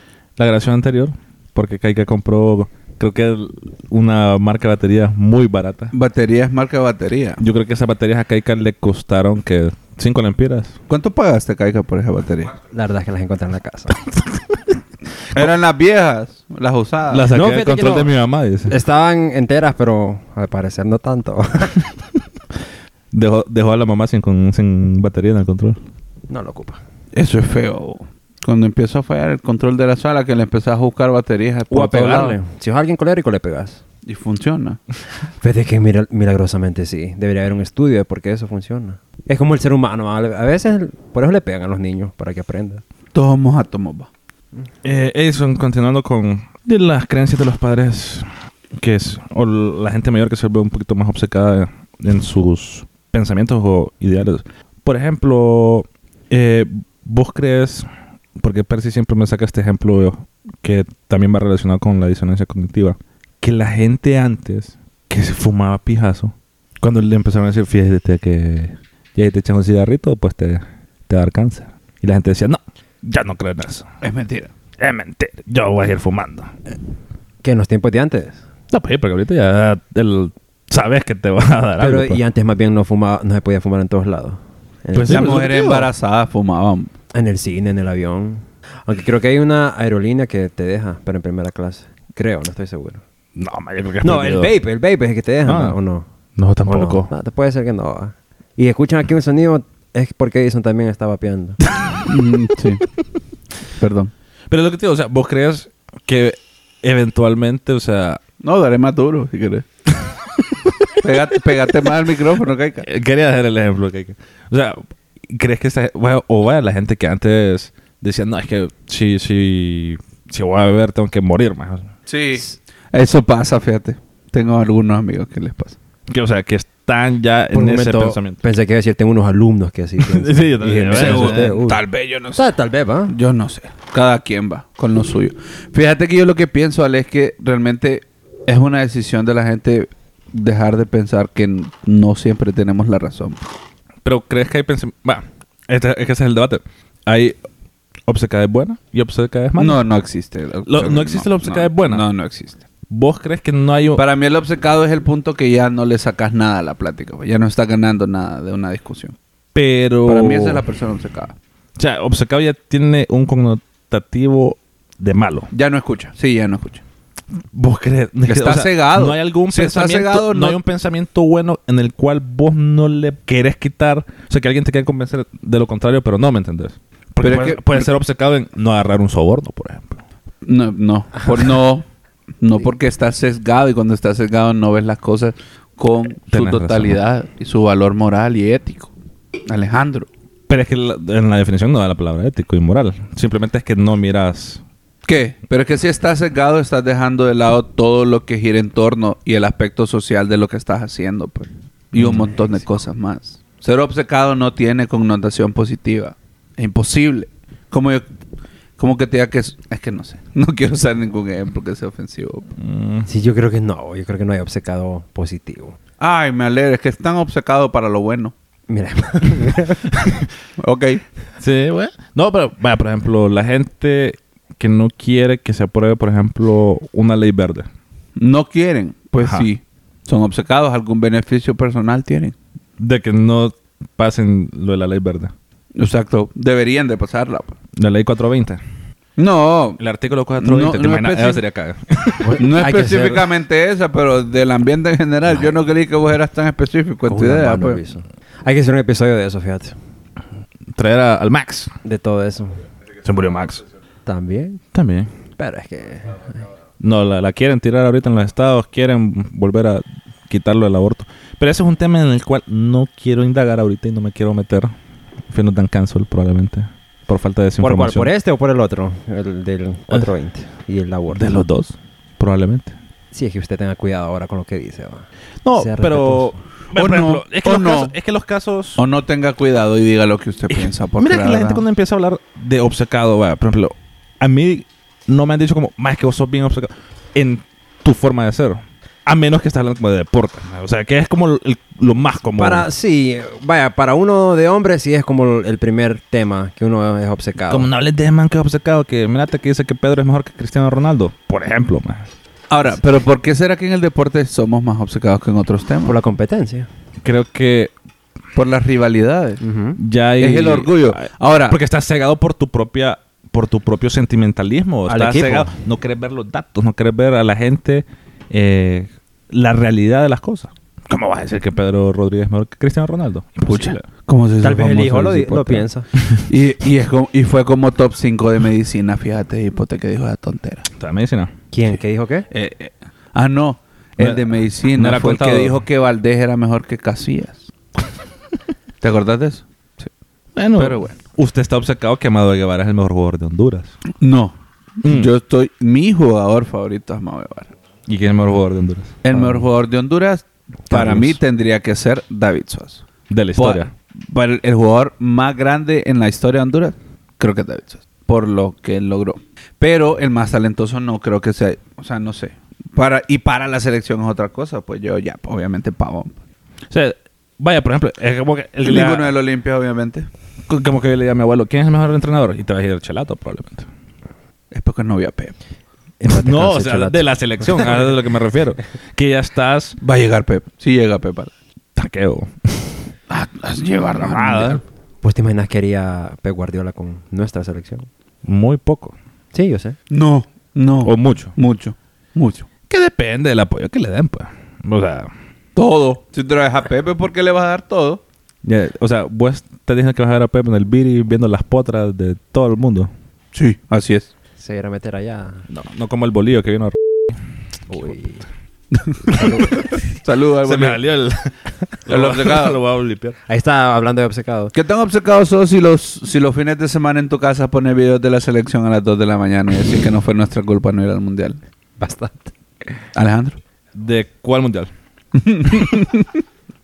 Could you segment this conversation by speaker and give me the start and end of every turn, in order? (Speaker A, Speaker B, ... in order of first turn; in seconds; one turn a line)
Speaker A: 0.4-5.9
Speaker B: 5.9-7.4
Speaker A: 7.4-10.8
Speaker B: 10.9-12.5
Speaker C: 12.7-14.0
Speaker A: 14.2-14.6
Speaker B: 15.3-17.3
Speaker A: 17.1-18.8
Speaker C: 17.3-18.1
Speaker C: 18.7-21.9
Speaker A: 23.1-25.8
Speaker C: 26.3-26.8
Speaker B: 27.1-32.4
Speaker C: 31.7-33.8
Speaker B: 34.0-34.8
Speaker C: 35.4-42.8
Speaker B: 43.1-44.1
Speaker A: 44.8-57.9
Speaker A: 58.4-73.9
Speaker B: 74.0-74.5
Speaker A: 74.8-76.5
Speaker C: 77.4-78.4
Speaker A: 78.7-82.2
Speaker C: 81.8-85.6
Speaker A: 85.0-85.9
Speaker B: 85.0-86.9
Speaker C: 87.1-93.0
Speaker A: 93.3-94.5
Speaker C: 94.0-96.1
Speaker A: 95.4-95.8
Speaker A: 96.4-97.1
Speaker C: 96.6-101.6
Speaker B: 102.0-102.8
Speaker B: 103.7-104.1
Speaker A: 104.5-108.2
Speaker B: 108.4-109.7
Speaker A: 110.0-110.9
Speaker B: 111.0-112.9
Speaker A: 112.8-121.9
Speaker B: 122.1-125.8
Speaker A: 126.1-128.4
Speaker C: 127.5-131.8
Speaker A: 130.0-131.6
Speaker B: 130.9-132.4
Speaker C: 132.3-133.1
Speaker B: 133.1-143.4
Speaker A: 144.0-147.4
Speaker A: 148.1-149.8
Speaker B: 149.6-152.6
Speaker A: 150.7-152.0
Speaker A: 152.9-154.0
Speaker B: 153.9-159.2
Speaker A: 159.5-160.6
Speaker B: 160.1-161.3
Speaker A: 161.8-165.5
Speaker B: 165.5-166.8
Speaker A: 167.5-180.0
Speaker B: 168.3-170.6
Speaker B: 177.2-177.9
Speaker B: 180.4-181.8
Speaker B: 182.4-188.9
Speaker A: 186.3-187.0
Speaker B: 189.4-190.1
Speaker A: 190.5-194.6
Speaker B: 195.1-208.0
Speaker A: 201.9-202.3
Speaker B: 208.8-212.5
Speaker A: 212.6-213.1
Speaker C: 213.1-215.8
Speaker B: 216.0-218.3
Speaker C: 218.7-220.0
Speaker A: 219.9-220.3
Speaker B: 220.6-221.0
Speaker A: 221.4-227.7
Speaker B: 228.2-232.3
Speaker A: 229.2-229.5
Speaker A: 232.8-235.3
Speaker B: 235.8-237.5
Speaker A: 237.8-238.6
Speaker B: 239.2-239.8
Speaker A: 239.8-242.4
Speaker B: 240.4-241.4
Speaker C: 242.2-243.2
Speaker B: 242.4-247.8
Speaker C: 247.1-249.8
Speaker A: 250.7-251.7
Speaker C: 251.8-252.6
Speaker A: 253.0-253.6
Speaker C: 254.1-254.6
Speaker A: 254.7-255.1
Speaker C: 255.4-256.4
Speaker A: 256.8-264.7
Speaker A: 265.3-268.1
Speaker C: 267.6-271.4
Speaker A: 271.1-272.7
Speaker C: 273.1-276.3
Speaker A: 275.4-278.8
Speaker B: 276.7-277.9
Speaker B: 278.8-281.6
Speaker A: 280.5-292.7
Speaker C: 292.4-297.7
Speaker A: 297.5-302.1
Speaker B: 302.5-305.9
Speaker C: 305.8-306.7
Speaker A: 307.0-307.7
Speaker B: 308.3-309.4
Speaker C: 309.4-309.8
Speaker A: 309.8-323.9
Speaker B: 310.2-311.6
Speaker C: 314.9-315.5
Speaker B: 323.5-325.7
Speaker C: 324.4-325.9
Speaker A: 326.0-326.2
Speaker B: 326.2-330.7
Speaker A: 330.8-331.3
Speaker C: 331.5-332.3
Speaker B: 332.3-337.5
Speaker A: 334.0-335.6
Speaker B: 338.8-339.4
Speaker A: 340.3-343.8
Speaker B: 340.6-341.0
Speaker B: 344.0-344.3
Speaker A: 344.8-345.1
Speaker B: 344.8-347.5
Speaker A: 347.9-349.0
Speaker B: 349.0-352.8
Speaker A: 350.7-351.2
Speaker A: 353.1-353.7
Speaker B: 353.4-366.1
Speaker A: 366.7-369.1
Speaker B: 368.6-370.1
Speaker A: 370.5-373.7
Speaker B: 374.5-375.3
Speaker C: 376.0-377.8
Speaker A: 376.0-379.8
Speaker B: 379.8-381.3
Speaker A: 381.8-382.9
Speaker B: 383.1-384.6
Speaker A: 383.9-384.6
Speaker C: 385.0-387.9
Speaker A: 388.2-388.9
Speaker C: 389.3-389.8
Speaker B: 389.9-392.5
Speaker A: 390.8-391.3
Speaker A: 392.7-395.1
Speaker B: 395.6-398.0
Speaker A: 398.4-402.9
Speaker B: 403.3-404.1
Speaker C: 404.4-405.4
Speaker A: 405.5-406.8
Speaker C: 407.7-408.2
Speaker B: 408.7-410.8
Speaker A: 409.1-409.7
Speaker C: 409.2-409.4
Speaker A: 410.4-413.1
Speaker B: 411.9-412.6
Speaker C: 413.3-414.5
Speaker B: 414.5-421.4
Speaker C: 421.8-422.3
Speaker B: 422.9-423.4
Speaker A: 423.8-424.7
Speaker B: 425.1-426.2